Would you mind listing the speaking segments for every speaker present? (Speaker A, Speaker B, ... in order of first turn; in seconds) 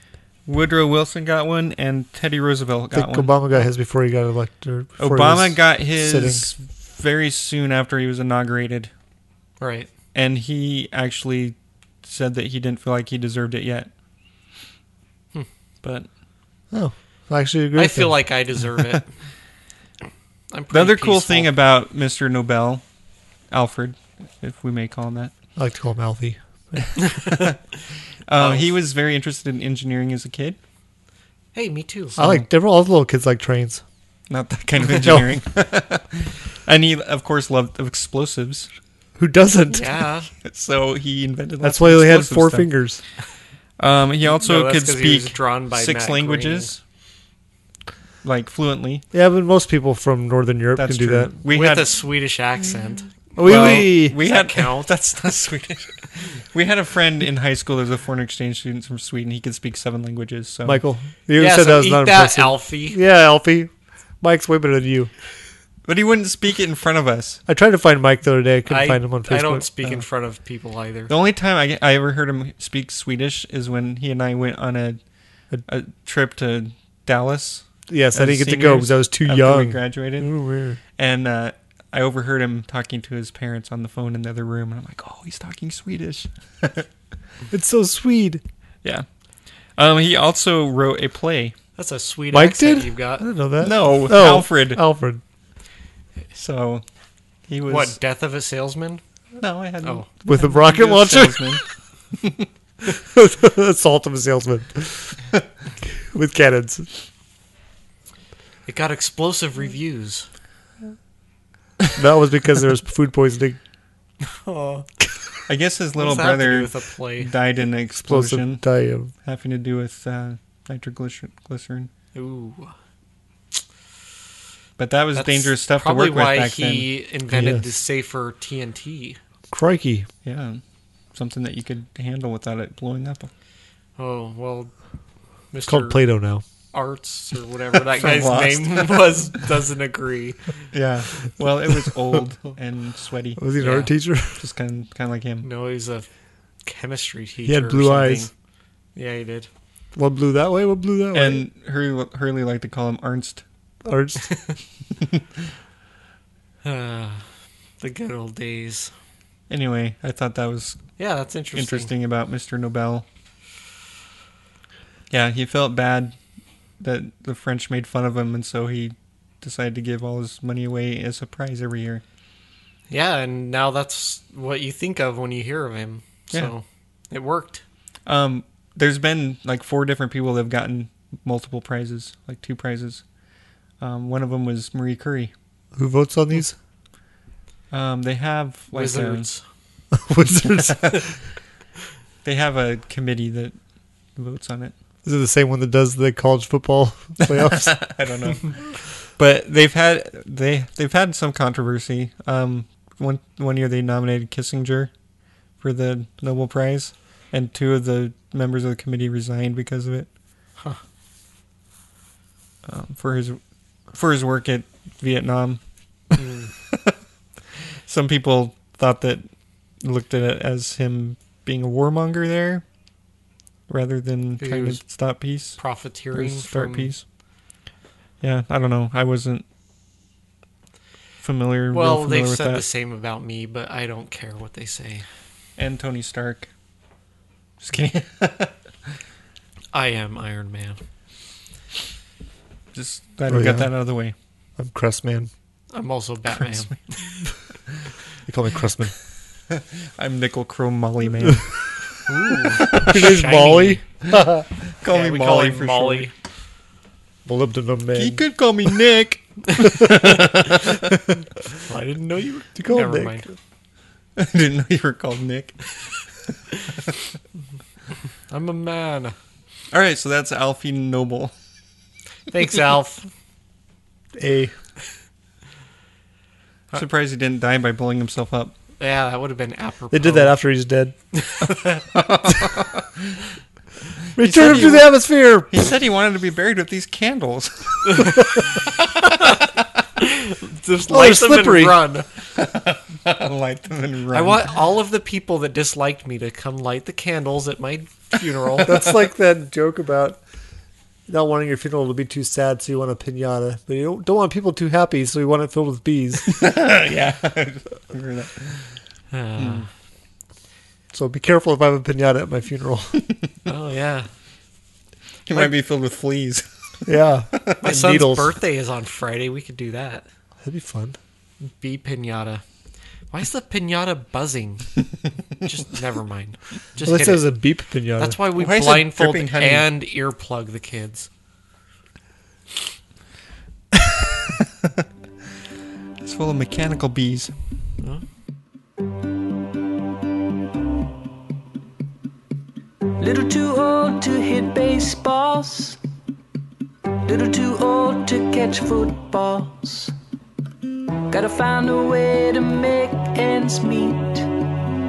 Speaker A: 0.5-3.6, 5.0-8.9, 10.1-13.9, 20.7-22.8, 23.5-25.3, 27.1-27.5, 28.3-30.6, 32.2-32.4, 34.3-38.7, 40.4-42.7, 43.8-46.8, 48.2-49.0, 50.8-52.0, 53.4-60.8, 65.8-67.4, 71.1-75.0, 75.7-80.3, 81.0-86.9, 89.8-91.5, 93.6-94.8, 96.3-96.8, 97.5-98.0, 99.4-101.6, 102.2-102.5, 115.5-118.6, 119.2-121.9, 124.8-126.9, 130.2-130.6, 131.1-133.3, 137.9-139.2, 140.7-143.5, 144.3-145.5, 151.1-153.4, 159.5-160.8, 161.5-163.0, 165.1-166.2, 166.8-172.0, 178.1-183.0, 183.8-185.3, 187.7-189.3, 190.7-191.0, 192.2-193.5, 194.2-194.7, 197.2-204.9, 205.6-210.1, 212.7-213.4, 213.9-215.6, 217.9-219.3, 219.8-222.6, 223.7-227.0, 228.2-229.4, 231.2-232.6, 235.6-236.5, 237.6-238.5, 242.7-244.1, 249.5-251.7, 254.8-256.1, 257.9-260.8, 264.2-265.7, 269.7-271.3, 276.7-278.6, 281.9-282.9, 284.2-285.0, 285.5-289.4, 292.4-294.5, 306.3-308.7, 309.4-309.6, 315.3-317.6, 328.3-329.7, 336.0-337.3
Speaker B: 2.9-6.5, 16.7-18.3, 25.6-26.9, 32.2-33.8, 35.0-35.3, 39.2-40.0, 41.6-43.0, 49.1-51.3, 53.4-54.2, 60.6-65.1, 67.5-70.0, 77.9-80.8, 87.5-88.4, 92.3-95.2, 100.2-101.6, 102.9-105.2, 105.9-106.9, 112.0-113.6, 118.0-119.1, 127.3-127.6, 129.5-130.1, 135.7-136.4, 143.4-144.4, 147.4-148.3, 149.9-151.4, 153.8-154.3, 185.7-186.6, 189.9-191.0, 195.0-197.8, 243.3-243.7, 244.6-245.3, 248.3-248.9, 252.7-254.4, 257.2-258.2, 262.6-263.3, 274.1-274.5, 279.9-280.9, 284.1-285.6, 290.9-291.8, 298.6-300.2, 301.1-306.4, 310.9-313.0, 316.9-318.4, 320.4-321.0, 326.8-328.2
Speaker C: 9.6-9.9, 17.7-19.1, 20.5-21.5, 28.4-28.7, 31.5-32.2, 39.7-40.3, 44.3-46.7, 51.5-54.9, 61.4-63.0, 68.7-71.1, 91.8-93.3, 97.7-99.0, 99.8-100.1, 108.7-110.3, 114.2-114.8, 116.0-117.3, 122.1-122.7, 125.1-129.2, 134.0-134.7, 135.5-136.0, 136.7-140.4, 143.6-143.9, 145.4-146.1, 146.6-148.3, 148.9-149.5, 156.6-157.2, 157.8-158.9, 161.0-161.9, 172.9-177.6, 188.7-189.4, 216.2-216.5, 224.4-224.8, 225.6-226.9, 231.7-235.1, 239.7-240.8, 245.7-247.1, 252.1-253.8, 254.9-256.1, 261.6-263.3, 268.3-269.1, 272.3-273.1, 278.8-280.4, 281.1-281.8, 290.0-292.1, 294.1-298.8, 309.1-309.7, 313.5-314.1, 317.6-320.1, 321.4-322.4, 323.1-324.7, 325.4-327.3, 328.0-331.1
Speaker D: 343.0-345.8, 347.1-349.9, 351.1-354.3